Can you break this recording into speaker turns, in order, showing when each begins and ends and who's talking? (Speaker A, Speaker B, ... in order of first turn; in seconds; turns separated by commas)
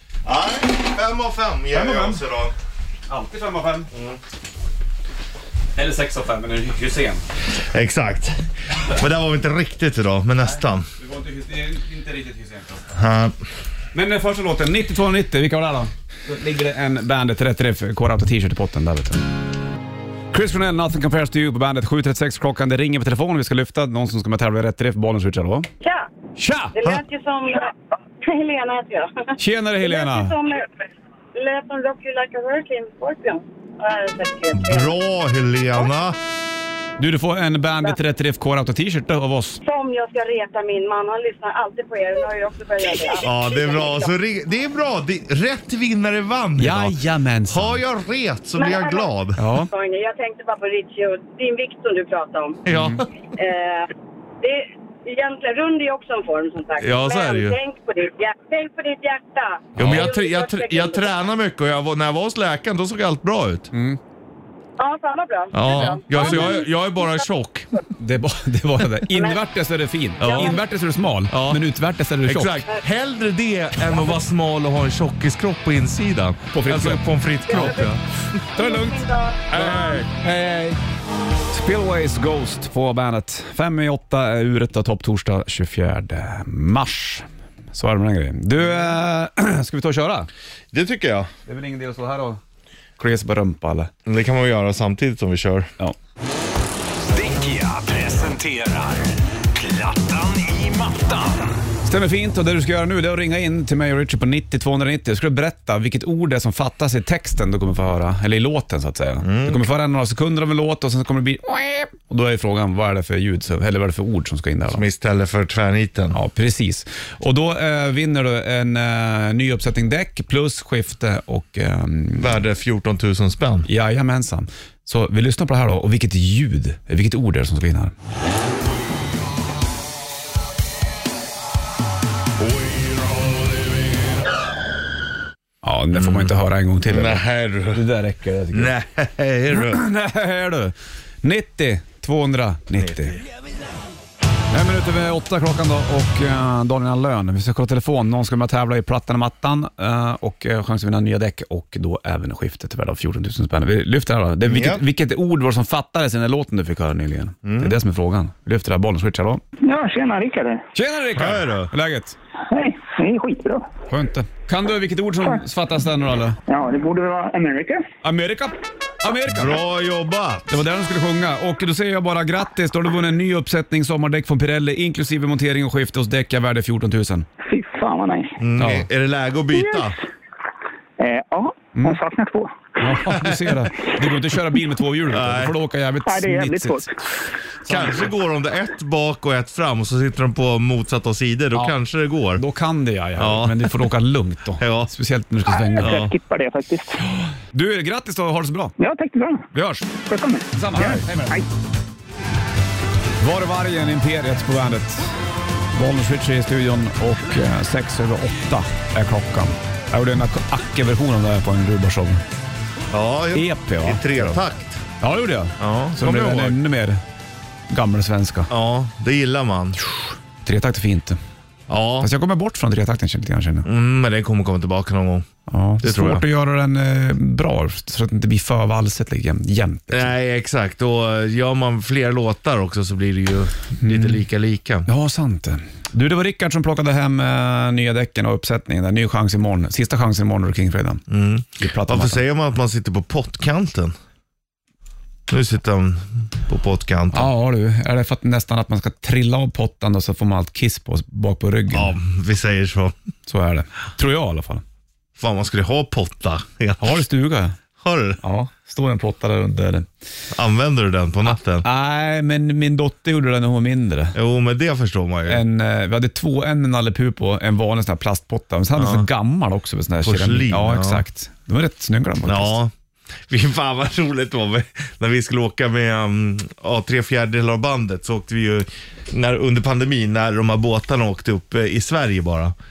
Speaker A: 0.2-2.6, Speaker B: 1.7-2.2, Speaker B: 3.1-3.9, Speaker A: 3.9-4.2, Speaker B: 5.8-7.2, Speaker A: 7.6-10.9, Speaker B: 11.0-12.9, Speaker A: 12.9-13.4, Speaker B: 13.9-19.2, Speaker B: 20.3-25.7, Speaker C: 25.8-26.1, Speaker B: 26.4-26.8, Speaker C: 26.8-30.8, Speaker B: 29.4-30.4, Speaker C: 31.4-34.9, Speaker A: 34.5-36.2, Speaker B: 37.0-39.6, Speaker C: 39.6-44.1, Speaker A: 43.2-49.4, Speaker B: 46.6-47.8, Speaker C: 48.6-49.1, Speaker B: 49.4-49.7, Speaker C: 49.7-52.6, Speaker A: 52.7-53.0, Speaker B: 52.7-53.0, Speaker C: 53.4-61.1, Speaker A: 56.8-57.6, Speaker A: 59.8-63.7, Speaker B: 63.7-64.0, Speaker C: 64.8-67.2, Speaker A: 65.5-67.7, Speaker B: 66.1-66.6, Speaker B: 68.0-72.6, Speaker C: 69.1-69.4, Speaker A: 70.2-70.6, Speaker C: 70.2-70.6, Speaker A: 71.3-71.6, Speaker A: 72.2-78.0, Speaker B: 76.5-77.7, Speaker C: 77.5-77.9, Speaker C: 78.5-80.0, Speaker B: 78.6-80.8, Speaker B: 81.5-90.3, Speaker A: 90.7-91.3, Speaker B: 91.5-92.4, Speaker B: 93.0-93.9, Speaker A: 94.1-95.7, Speaker B: 97.2-97.8, Speaker D: 97.4-99.1, Speaker D: 99.6-101.4, Speaker B: 101.8-114.8, Speaker A: 109.2-109.6, Speaker A: 114.7-116.2, Speaker B: 116.1-122.4, Speaker A: 122.2-123.7, Speaker B: 123.7-127.9, Speaker A: 132.5-133.3, Speaker B: 135.6-138.7, Speaker A: 135.9-136.3, Speaker A: 136.8-137.8, Speaker A: 138.5-139.8, Speaker B: 139.5-143.2, Speaker A: 142.8-143.2, Speaker B: 144.5-159.4, Speaker A: 154.4-154.8, Speaker A: 157.4-157.8, Speaker E: 159.6-160.6, Speaker B: 160.8-162.2, Speaker A: 161.2-161.7, Speaker E: 162.5-163.7, Speaker B: 163.9-166.4, Speaker E: 166.5-167.9, Speaker B: 168.0-169.6, Speaker A: 169.3-170.6, Speaker B: 170.5-177.2, Speaker E: 177.5-178.4, Speaker A: 178.4-180.0, Speaker B: 178.6-178.9, Speaker E: 179.5-179.9, Speaker E: 181.0-182.6, Speaker B: 182.8-187.1, Speaker A: 185.1-185.6, Speaker E: 186.1-186.9, Speaker B: 187.6-188.1, Speaker A: 187.7-192.4, Speaker B: 192.4-196.0, Speaker A: 193.2-193.9, Speaker A: 194.6-194.9, Speaker E: 195.5-197.0, Speaker A: 195.8-196.1, Speaker B: 197.5-198.8, Speaker E: 198.8-201.5, Speaker B: 199.5-199.9, Speaker B: 200.5-201.4, Speaker B: 203.2-205.1, Speaker B: 205.7-212.2, Speaker A: 212.9-214.8, Speaker B: 213.3-214.4, Speaker B: 215.0-217.0, Speaker A: 215.6-216.6, Speaker B: 217.7-218.5, Speaker A: 218.5-219.8, Speaker B: 220.4-221.2, Speaker A: 221.7-222.1, Speaker B: 222.0-223.7, Speaker A: 223.6-225.3, Speaker B: 225.5-230.1, Speaker A: 225.8-226.2, Speaker A: 229.9-234.9, Speaker B: 233.8-234.2, Speaker B: 234.9-241.0, Speaker A: 241.1-244.0, Speaker B: 241.6-242.2, Speaker A: 245.3-247.3, Speaker B: 247.1-252.0, Speaker A: 251.7-252.9, Speaker B: 253.3-254.6, Speaker A: 255.2-257.1, Speaker B: 256.8-257.6, Speaker A: 257.8-258.2, Speaker B: 258.2-259.9, Speaker A: 260.3-261.6, Speaker B: 261.3-264.1, Speaker A: 264.1-265.4, Speaker B: 265.3-272.6, Speaker A: 268.8-269.1, Speaker A: 270.0-271.0, Speaker A: 272.3-272.7, Speaker A: 273.3-282.6